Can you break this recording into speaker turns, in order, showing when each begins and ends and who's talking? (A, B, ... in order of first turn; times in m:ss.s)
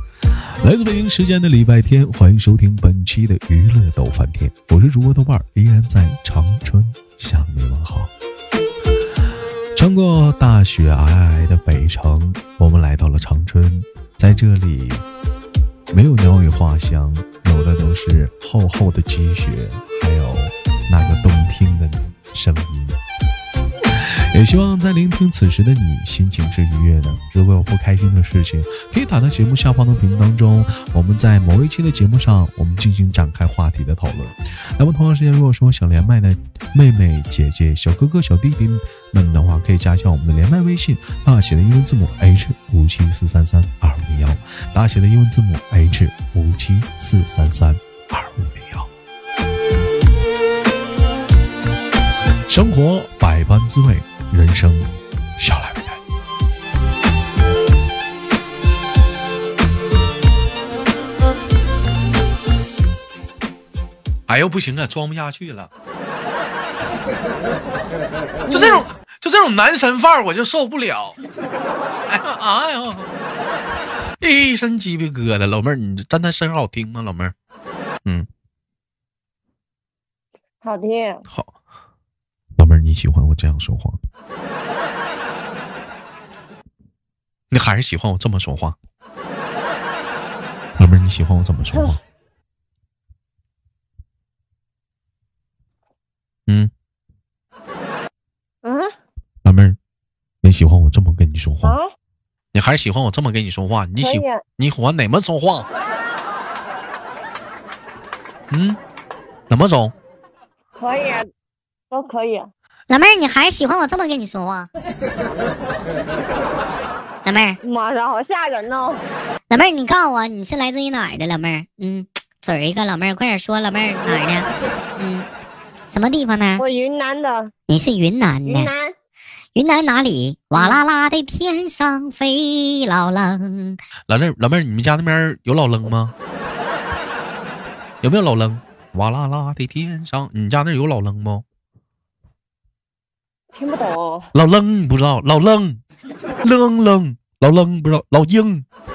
0:00.6-0:08.1 A
0:09.8-0:15.0 A
0:15.9-0:23.0 A
0:23.9-0:48.9 A
0:52.5-0:56.0 A
1:04.3-1:05.7 A
1:08.5-1:08.8 B
1:08.5-1:11.2 A
1:12.1-1:13.1 A
1:14.2-1:17.3 A
1:20.6-1:21.2 B
1:22.6-1:24.0 A
1:27.5-1:28.8 A
1:30.8-1:32.0 A
1:36.5-1:36.7 A
1:38.6-1:38.9 B
1:39.4-1:39.8 A
1:40.4-1:41.8 A
1:42.5-1:45.7 A
1:44.0-1:44.4 B
1:48.5-1:48.8 A
1:49.5-1:49.9 A
1:50.8-1:51.3 B
1:51.9-1:52.5 B
1:52.9-1:54.7 C
1:57.2-1:57.6 C
1:57.6-1:59.0 B
1:59.5-2:05.3 C
2:05.9-2:06.6 C
2:06.6-2:07.5 B
2:07.7-2:08.7 C
2:08.4-2:08.9 B
2:09.6-2:13.8 C
2:10.6-2:10.8 B
2:14.1-2:16.2 A
2:18.0-2:21.4 A
2:23.5-2:24.3 B
2:24.3-2:25.8 A
2:26.4-2:28.7 A